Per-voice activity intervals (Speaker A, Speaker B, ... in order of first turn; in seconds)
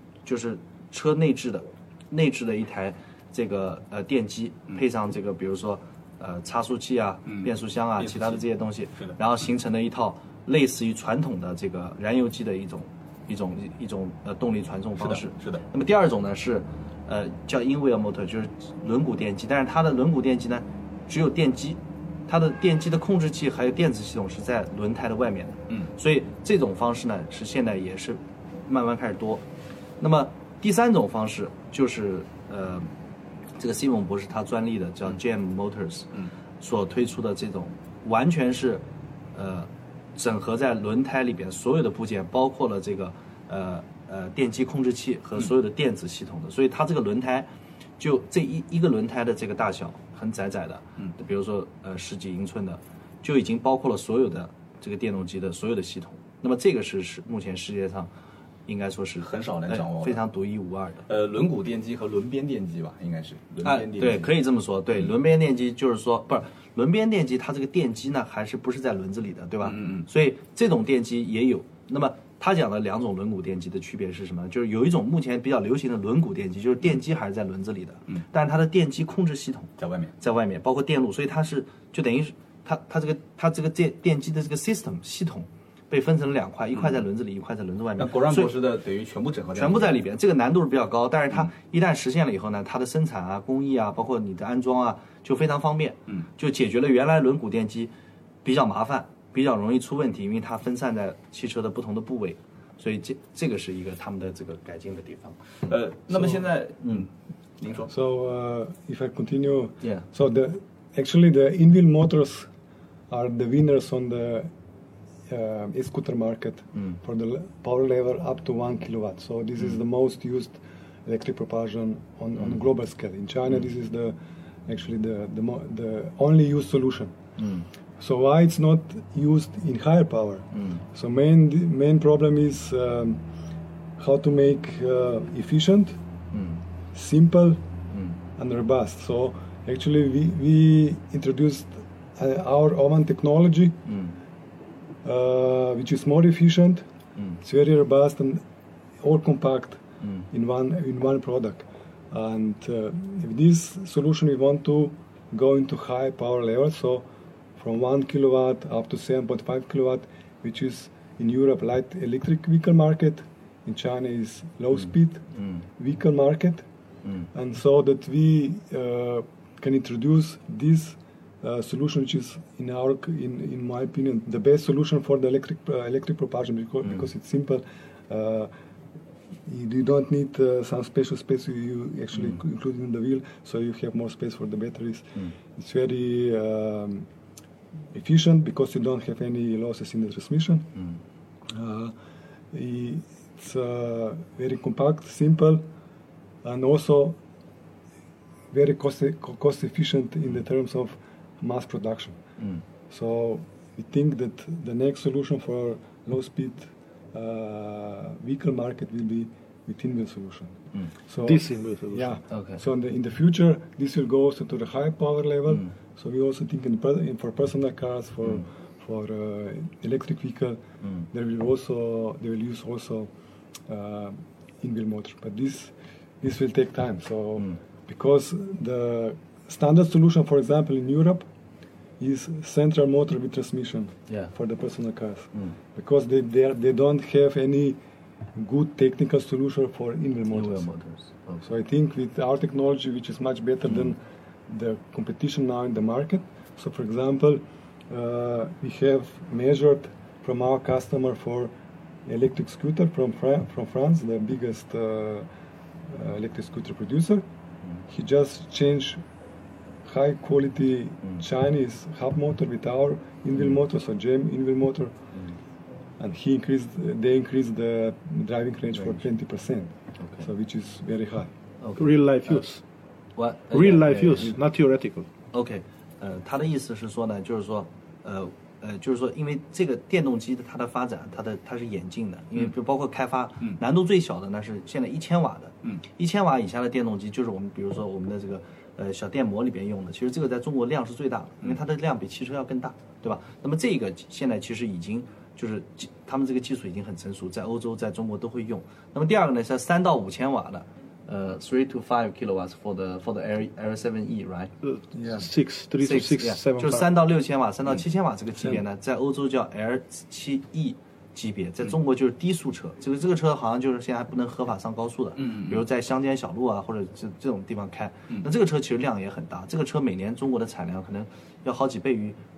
Speaker A: 0.2-29.4, 30.0-32.9, 33.6-58.1, 58.7-61.0, 63.6-88.6, 89.5-97.9, 98.4-105.4, 106.8-107.0, 127.4-127.7, 130.5-130.8, 136.3-136.6, 137.9-138.2, 143.9-144.1, 212.3-212.6, 240.3-241.4, 271.6-272.4, 273.1-274.4, 275.3-304.5, 305.8-322.2
Speaker B: 7.3-8.4, 15.0-15.6, 59.2-60.2, 61.1-64.3, 69.6-70.0, 79.8-80.1, 88.0-89.9, 105.6-107.1, 107.6-107.9, 315.2-315.6
Speaker C: 107.9-112.5, 113.1-114.5, 115.3-124.2, 124.7-127.1, 128.0-133.2, 134.0-136.0, 136.9-137.6, 138.4-143.8, 145.0-146.8, 147.4-148.4, 149.0-157.1, 157.6-165.2, 165.8-166.6, 167.3-178.5, 179.5-187.1, 187.9-190.7, 191.5-191.9, 192.5-195.7, 196.4-197.2, 198.5-202.2, 202.9-223.1, 223.7-231.2, 232.0-237.8, 238.3-240.7, 241.4-251.5, 252.1-255.2, 255.9-257.2, 257.9-259.0, 259.8-264.9, 266.0-271.3, 304.9-305.3
Speaker D: 211.2-212.1, 271.8-272.6, 273.5-275.1, 304.6-306.9